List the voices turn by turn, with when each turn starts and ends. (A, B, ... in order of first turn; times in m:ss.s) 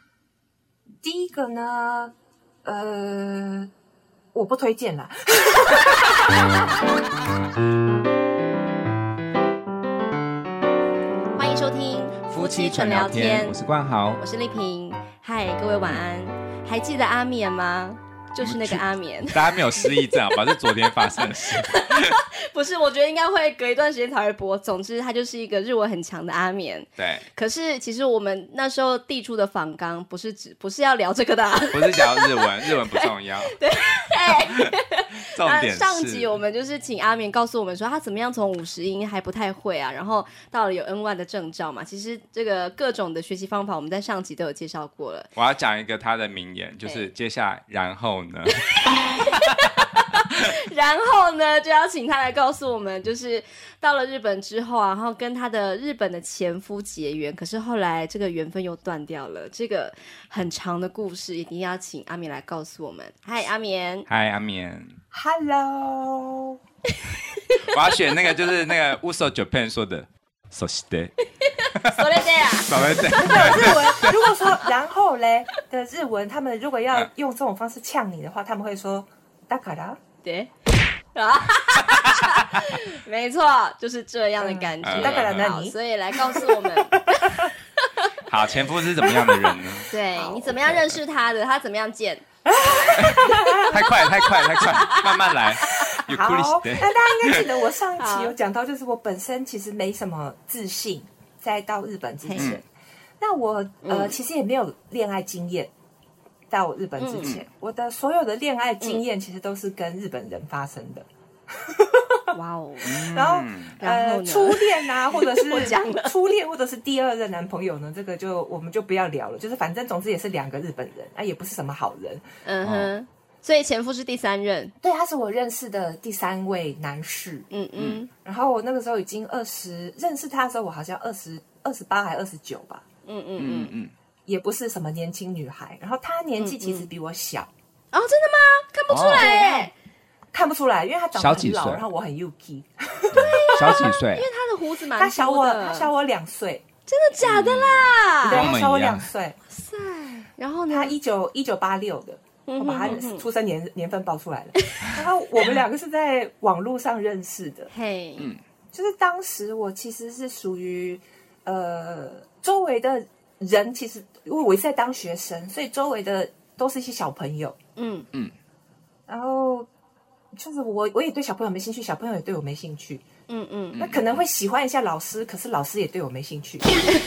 0:01.0-0:02.1 A
0:02.6-0:03.7 A
0:04.3-0:06.7 A
0:11.3-0:13.6 B
0:12.3-0:14.2 C
0:14.2-0:45.3 B
0:18.4-0:22.2 C
0:27.0-0:27.2 C
0:31.7-0:33.6 C
0:34.4-0:34.7 C
0:35.3-0:36.4 C
0:45.4-0:48.7 C
0:48.7-1:04.1 B
0:49.2-0:49.8 C
1:04.1-1:05.0 C
1:05.1-1:06.6 A
1:07.6-1:11.1 C
1:11.4-1:14.0 B
1:11.8-1:12.0 C
1:12.6-1:14.3 C
1:13.2-1:20.0 A
1:20.2-1:20.5 B
1:21.1-1:28.1 B
1:24.4-1:27.5 A
1:24.8-1:25.5 C
1:28.2-1:31.0 C
1:29.0-1:29.6 A
1:29.9-1:36.0 B
1:30.1-1:30.4 A
1:32.4-1:33.9 A
1:33.0-1:37.6 C
1:35.7-1:42.6 A
1:38.0-1:38.3 B
1:42.2-1:42.6 B
1:42.4-1:42.6 C
1:43.2-1:45.7 A
1:43.8-1:44.2 B
1:46.5-1:52.3 A
1:47.0-1:47.3 B
1:52.3-1:53.1 B
1:52.8-1:53.8 C
1:52.9-2:02.2 A
1:53.8-1:56.1 B
2:02.4-2:04.7 B
2:02.6-2:02.9 C
2:04.8-2:07.5 A
2:07.5-2:08.1 B
2:08.2-2:12.8 A
2:13.1-2:13.7 B
2:13.4-2:13.9 C
2:14.3-2:17.5 A
2:16.4-2:16.9 B
2:17.9-2:19.7 B
2:18.9-2:19.3 C
2:19.2-2:19.7 A
2:20.3-2:23.9 A
2:21.2-2:21.8 C
2:23.2-2:24.3 C
2:23.2-2:25.9 B
2:25.0-2:26.6 A
2:26.9-2:28.5 B
2:27.2-2:29.1 C
2:28.2-2:29.4 A
2:29.5-2:31.0 B
2:30.7-2:37.7 A
2:32.5-2:33.3 B
2:37.7-2:38.3 B
2:38.7-2:47.6 A
2:47.8-2:48.1 B
2:49.1-2:49.7 A
2:50.3-2:53.0 A
2:53.3-2:53.8 B
2:53.8-2:54.2 C
2:53.8-2:56.8 A